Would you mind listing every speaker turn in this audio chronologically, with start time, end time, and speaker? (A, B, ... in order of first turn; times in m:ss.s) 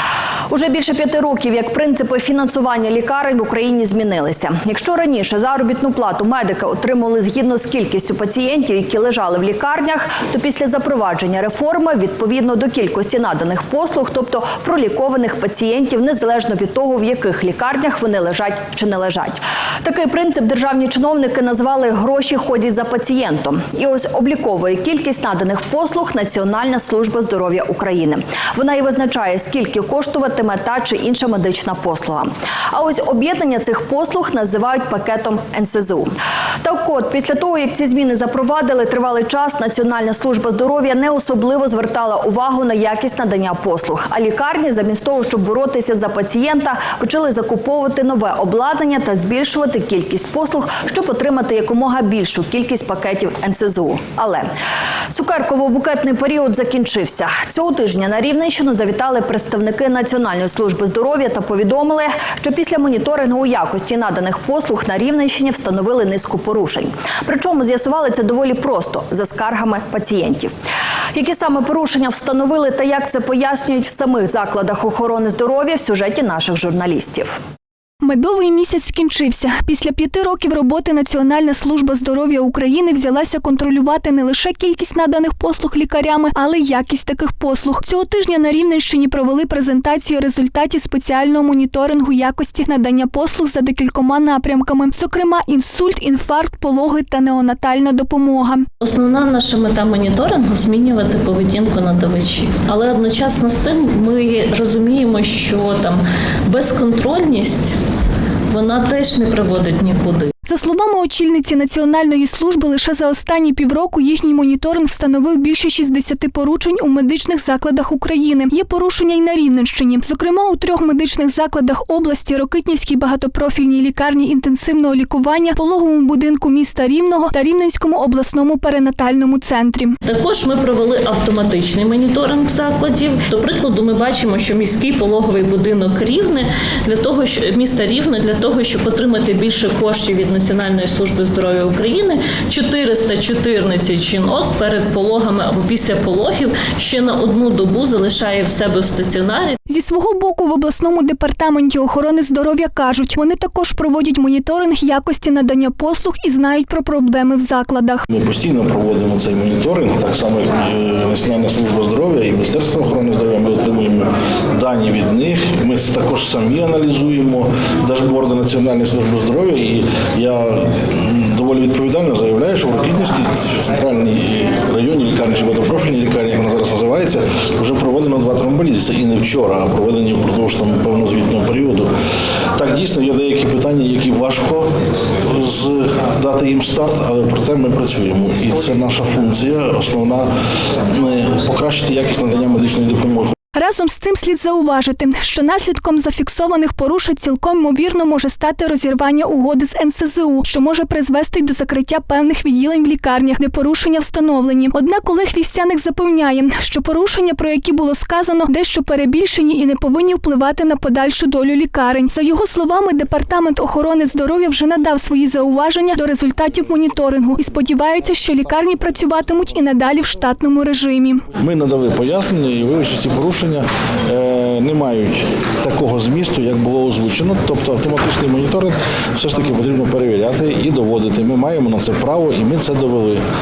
0:00.5-0:54.5 A
0:55.1-1:10.5 A
1:11.1-1:17.4 A
1:18.0-1:38.6 B
1:38.8-1:47.8 C
1:48.5-1:50.3 C
1:50.5-2:10.0 B
2:10.0-2:29.6 C
2:29.7-2:38.0 B
2:38.1-3:01.9 D
3:02.6-3:04.7 D
3:05.2-3:10.3 D
3:10.8-3:13.3 D
3:13.6-3:41.2 B
3:41.4-3:53.2 D